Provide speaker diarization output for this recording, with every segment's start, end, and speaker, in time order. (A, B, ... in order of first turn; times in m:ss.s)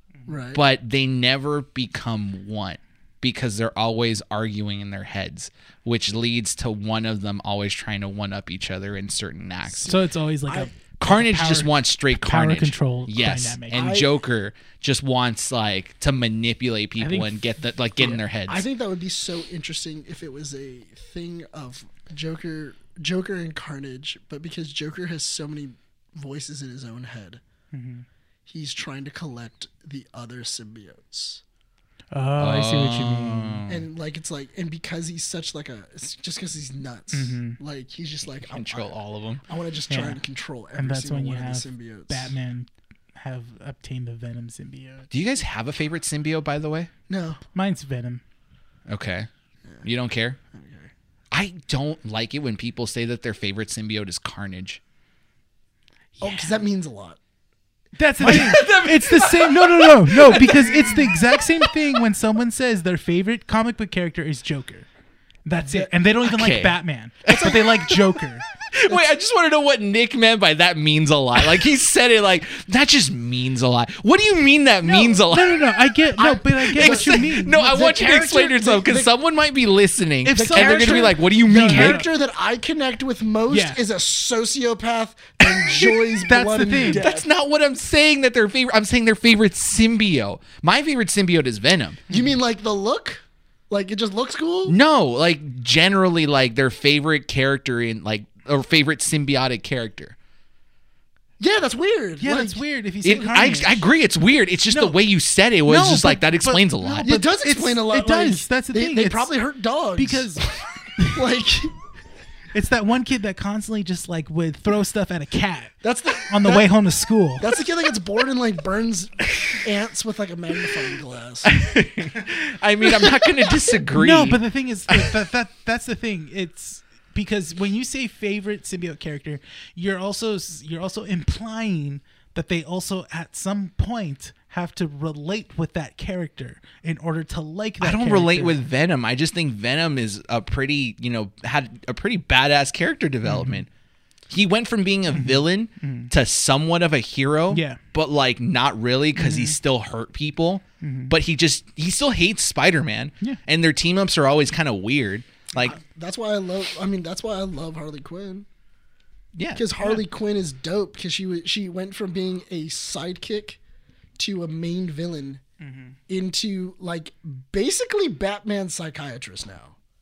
0:00.2-0:00.6 A
0:00.5-0:10.0 B
0:09.8-0:13.8 C
0:11.0-0:18.6 B
0:13.7-0:14.1 A
0:17.0-0:17.5 C
0:18.0-0:27.4 A
0:27.7-0:28.0 C
0:28.4-0:31.4 A
0:32.1-0:33.6 C
0:32.4-0:33.8 B
0:33.7-0:38.9 A
0:37.1-0:37.6 C
0:38.5-0:39.4 B
0:39.4-0:42.3 A
0:39.9-0:40.2 C
0:40.8-0:45.1 C
0:45.1-0:46.9 B
0:47.1-0:47.4 A
0:47.5-0:48.2 C
0:48.9-0:49.3 B
0:49.8-0:50.4 B
0:50.5-0:50.9 A
0:51.3-0:54.8 B
0:56.2-0:56.6 C
0:56.2-0:57.2 A
0:58.0-1:04.9 C
0:58.2-1:01.1 B
1:05.4-1:08.4 C
1:05.6-1:05.9 A
1:06.2-1:08.0 B
1:07.2-1:07.8 A
1:08.6-1:15.8 B
1:14.8-1:15.2 A
1:15.1-1:17.6 C
1:16.2-1:19.1 A
1:16.5-1:22.0 B
1:20.2-1:22.1 C
1:20.3-1:27.3 A
1:23.5-1:23.8 C
1:26.0-1:27.0 C
1:26.8-1:32.0 B
1:32.1-1:34.8 A
1:34.7-1:40.2 B
1:41.4-1:42.6 A
1:42.2-1:43.9 C
1:43.0-1:47.1 B
1:44.7-1:45.0 C
1:45.7-1:51.7 A
1:46.8-1:49.3 C
1:50.0-1:51.2 C
1:52.5-1:57.5 C
1:55.8-1:56.7 A
1:57.4-2:01.6 A
2:01.4-2:04.4 B
2:02.9-2:03.3 A
2:03.9-2:18.6 C
2:17.8-2:23.7 B
2:23.2-2:23.6 C
2:24.3-2:35.8 B
2:25.1-2:26.1 C
2:27.5-2:27.8 C
2:29.2-2:29.6 C
2:30.8-2:31.1 C
2:35.6-2:38.5 A
2:39.3-2:39.6 B
2:39.5-2:43.6 A
2:44.2-2:45.4 A
2:45.6-2:46.0 C
2:46.1-2:49.8 A